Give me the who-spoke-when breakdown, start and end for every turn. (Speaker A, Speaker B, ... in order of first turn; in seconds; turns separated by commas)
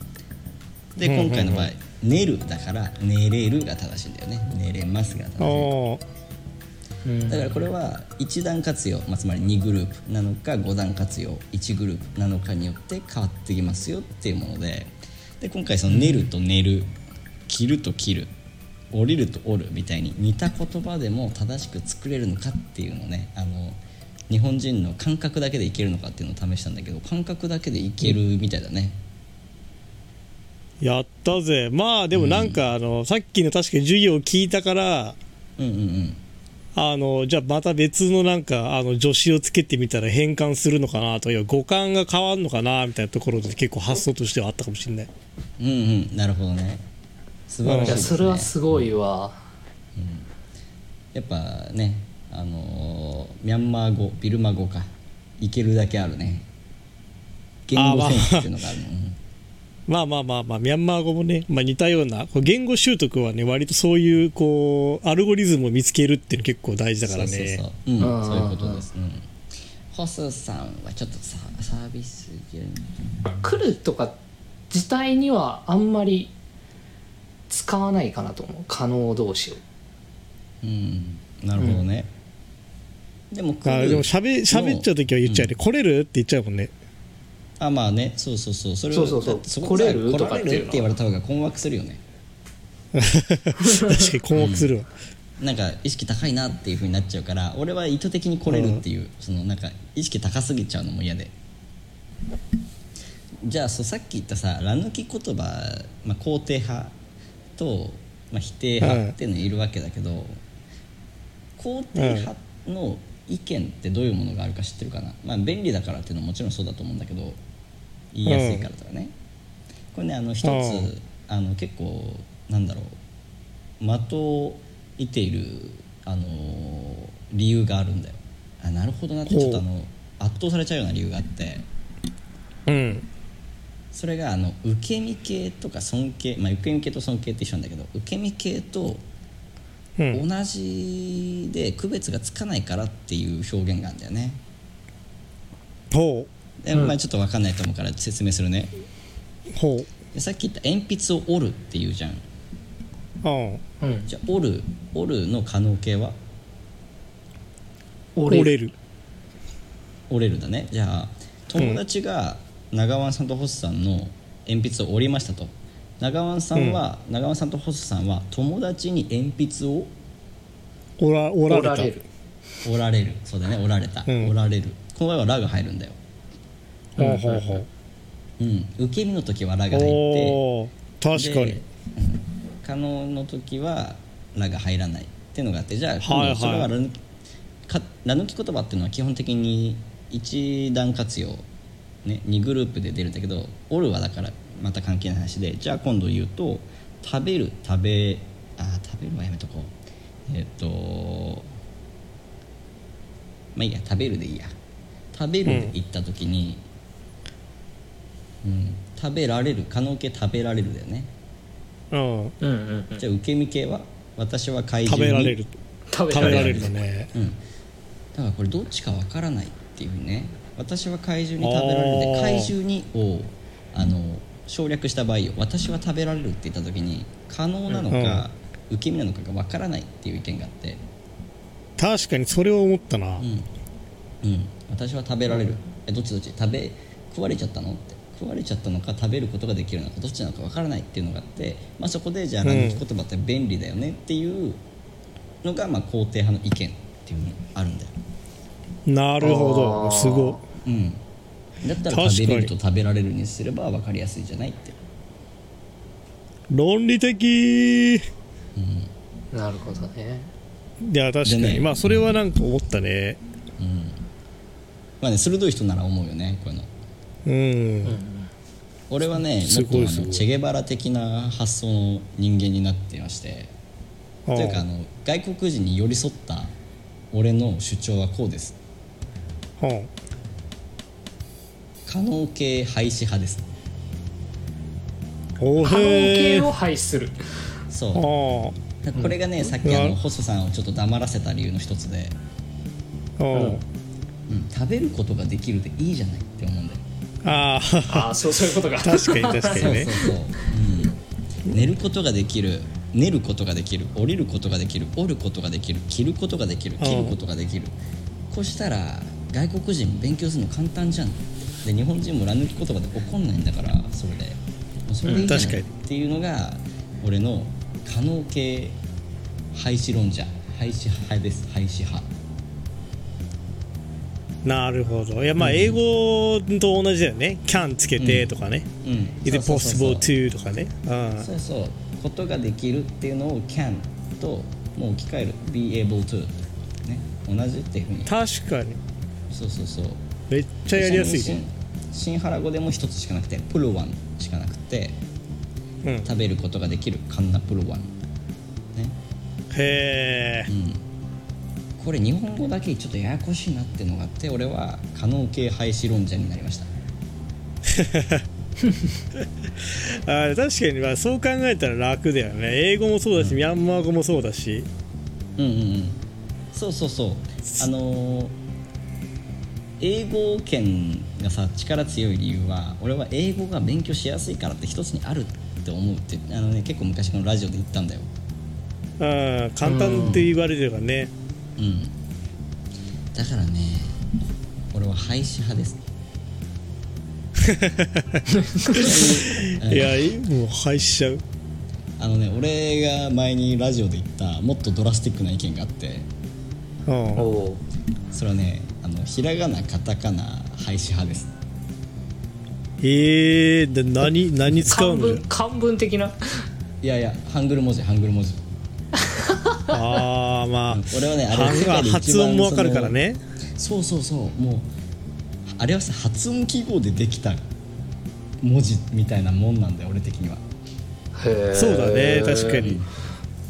Speaker A: 1.0-5.7, Speaker B: 1.0-1.7, Speaker B: 5.4-6.0, Speaker C: 7.0-7.6, Speaker A: 7.3-16.9, Speaker C: 15.9-16.3, Speaker A: 17.5-18.3, Speaker A: 18.9-29.0, Speaker B: 30.8-35.2, Speaker A: 32.1-32.6, Speaker A: 35.6-36.2, Speaker B: 36.8-45.1, Speaker A: 45.6-46.8, Speaker A: 47.5-48.9, Speaker B: 47.6-48.1, Speaker C: 47.8-49.4, Speaker A: 50.0-50.3, Speaker A: 51.1-56.5, Speaker A: 57.7-59.2, Speaker B: 57.8-58.5, Speaker B: 59.9-67.6, Speaker A: 67.0-69.3, Speaker C: 68.0-68.8, Speaker A: 69.9-73.1, Speaker C: 73.4-74.2, Speaker C: 74.7-76.3, Speaker C: 77.5-79.6, Speaker A: 80.6-82.1, Speaker A: 83.3-85.5, Speaker B: 83.7-86.7, Speaker A: 87.6-92.0, Speaker C: 88.9-90.9, Speaker B: 92.9-94.9, Speaker C: 93.6-94.1, Speaker A: 94.3-94.7, Speaker A: 95.4-101.3, Speaker B: 98.5-98.8, Speaker A: 103.4-107.0, Speaker A: 107.6-110.4, Speaker B: 108.8-109.2, Speaker A: 111.6-117.4, Speaker B: 112.0-112.3, Speaker A: 118.1-119.1, Speaker B: 118.3-118.7, Speaker A: 119.9-123.0, Speaker B: 120.4-120.9, Speaker A: 123.8-131.7, Speaker B: 129.3-129.6, Speaker B: 132.7-133.1, Speaker A: 133.9-139.0, Speaker A: 140.1-144.4, Speaker B: 145.9-146.3, Speaker A: 146.6-148.7, Speaker B: 149.5-149.9, Speaker A: 150.1-152.2, Speaker B: 153.2-153.6, Speaker C: 153.8-154.1, Speaker A: 154.1-156.2, Speaker C: 158.2-158.5, Speaker B: 158.3-158.7, Speaker A: 160.1-169.9, Speaker B: 166.6-166.8, Speaker B: 171.0-171.9, Speaker C: 171.5-172.0, Speaker A: 172.6-176.0, Speaker B: 174.1-174.3, Speaker C: 177.0-177.6, Speaker B: 177.0-177.7, Speaker A: 178.4-180.4, Speaker B: 179.7-181.6, Speaker A: 181.1-187.0, Speaker B: 186.0-186.7, Speaker A: 187.7-191.5, Speaker A: 192.1-199.7, Speaker A: 200.3-201.5, Speaker A: 203.6-204.5, Speaker A: 205.1-206.6, Speaker B: 205.5-205.7, Speaker A: 208.4-211.1, Speaker B: 211.9-212.3, Speaker C: 212.4-213.0, Speaker A: 213.0-215.4, Speaker B: 214.9-215.5, Speaker C: 215.9-216.8, Speaker B: 216.1-217.1, Speaker A: 216.1-217.4, Speaker A: 218.1-230.8, Speaker B: 221.4-222.5, Speaker B: 227.9-228.3, Speaker B: 231.8-233.3, Speaker A: 233.2-233.5, Speaker A: 234.2-244.6, Speaker B: 242.4-242.8, Speaker A: 245.4-247.9, Speaker B: 248.9-250.4, Speaker C: 249.2-250.4, Speaker A: 250.6-251.0, Speaker A: 251.6-254.8, Speaker B: 251.9-252.5, Speaker B: 256.5-258.1, Speaker A: 258.6-258.9, Speaker C: 259.3-260.3, Speaker B: 260.8-263.2, Speaker A: 261.2-262.1, Speaker A: 263.6-264.0, Speaker A: 265.0-266.7, Speaker B: 267.2-268.0, Speaker C: 267.9-268.3, Speaker A: 268.9-273.5, Speaker B: 269.4-270.2, Speaker B: 274.3-274.6, Speaker A: 274.3-276.5, Speaker A: 277.1-278.6, Speaker B: 279.6-279.9, Speaker A: 281.9-283.5, Speaker B: 285.4-286.5, Speaker C: 285.6-287.2, Speaker A: 287.7-288.1, Speaker B: 287.9-288.6, Speaker A: 288.8-292.2, Speaker B: 289.6-290.0, Speaker B: 293.2-293.6, Speaker C: 293.3-293.6, Speaker A: 294.3-296.8, Speaker B: 297.2-298.2, Speaker C: 297.9-300.1, Speaker B: 298.8-299.9, Speaker A: 299.5-307.7, Speaker B: 306.8-307.2, Speaker A: 308.3-318.8, Speaker C: 315.1-315.4, Speaker B: 315.2-315.7, Speaker A: 319.5-322.1, Speaker B: 324.4-328.7, Speaker A: 325.4-325.8, Speaker A: 328.0-330.1, Speaker B: 329.2-331.3, Speaker A: 331.2-338.1, Speaker B: 338.1-338.8, Speaker A: 339.3-340.1, Speaker B: 340.3-341.4, Speaker A: 340.7-345.0, Speaker B: 345.8-346.1, Speaker A: 346.0-347.9, Speaker B: 349.5-350.5, Speaker A: 350.5-350.8, Speaker A: 351.8-356.7, Speaker B: 357.7-358.3, Speaker B: 359.2-364.7, Speaker A: 365.4-366.0, Speaker A: 366.5-368.3, Speaker A: 369.8-378.1, Speaker B: 379.0-381.1, Speaker C: 379.6-380.3, Speaker A: 381.6-381.9, Speaker A: 383.1-384.0, Speaker A: 384.7-385.9, Speaker B: 387.4-391.2, Speaker C: 388.6-388.8, Speaker A: 388.7-390.1, Speaker A: 392.0-396.1, Speaker B: 396.9-397.2, Speaker C: 397.2-397.6, Speaker A: 398.1-401.3, Speaker B: 402.8-405.2, Speaker C: 404.6-406.4, Speaker A: 406.8-408.4, Speaker C: 409.1-410.0, Speaker B: 409.7-413.2, Speaker A: 410.7-412.9, Speaker A: 413.6-414.7, Speaker A: 415.5-417.4, Speaker A: 418.4-420.4, Speaker C: 421.1-422.8, Speaker B: 421.5-422.8, Speaker A: 422.6-422.9